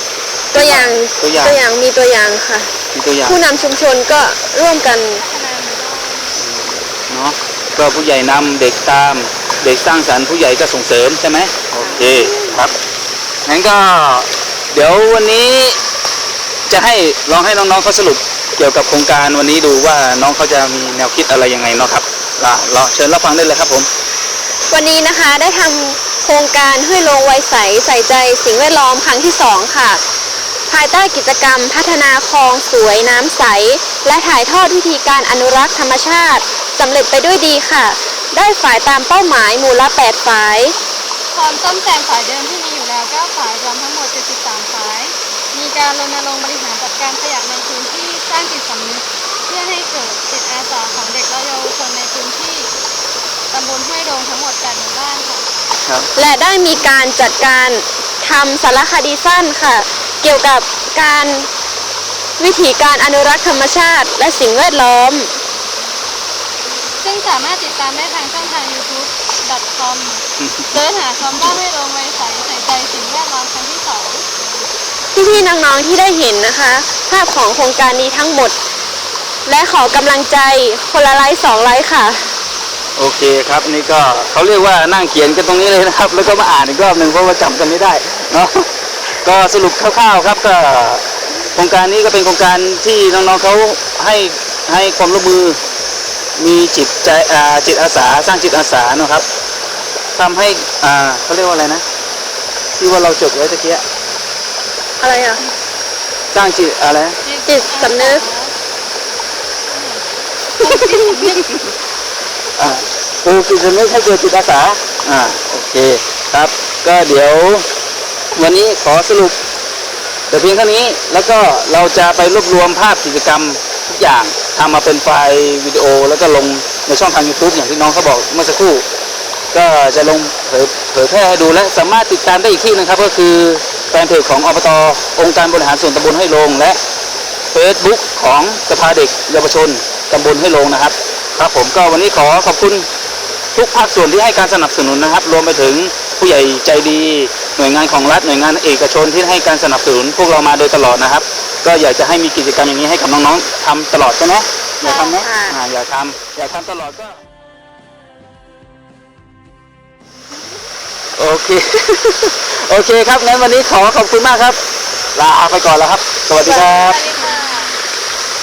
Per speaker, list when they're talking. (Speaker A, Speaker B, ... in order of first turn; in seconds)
Speaker A: 0.5-1.6, 2.9-3.4, 6.3-12.7, 13.4-15.8, 16.7-23.9, 83.0-88.7, 89.2-95.6, 96.3-99.2, 100.1-101.8, 102.8-103.8, 106.3-107.2, 112.6-117.7, 118.3-119.3, 120.3-128.8, 129.5-136.8, 137.5-142.9, 143.5-157.2, 161.2-164.6, 165.1-167.0
Speaker B: 0.5-5.2, 11.9-12.6, 24.7-30.0, 30.7-40.8, 56.1-61.5, 62.4-65.3, 75.1-78.5, 79.5-82.3, 105.0-105.4, 107.5-108.2, 110.6-111.1, 155.1-155.6
Speaker C: 5.1-6.4, 11.7-12.1, 41.3-52.7, 53.5-55.5, 67.0-74.2, 107.2-108.5, 109.7-111.4, 166.7-167.7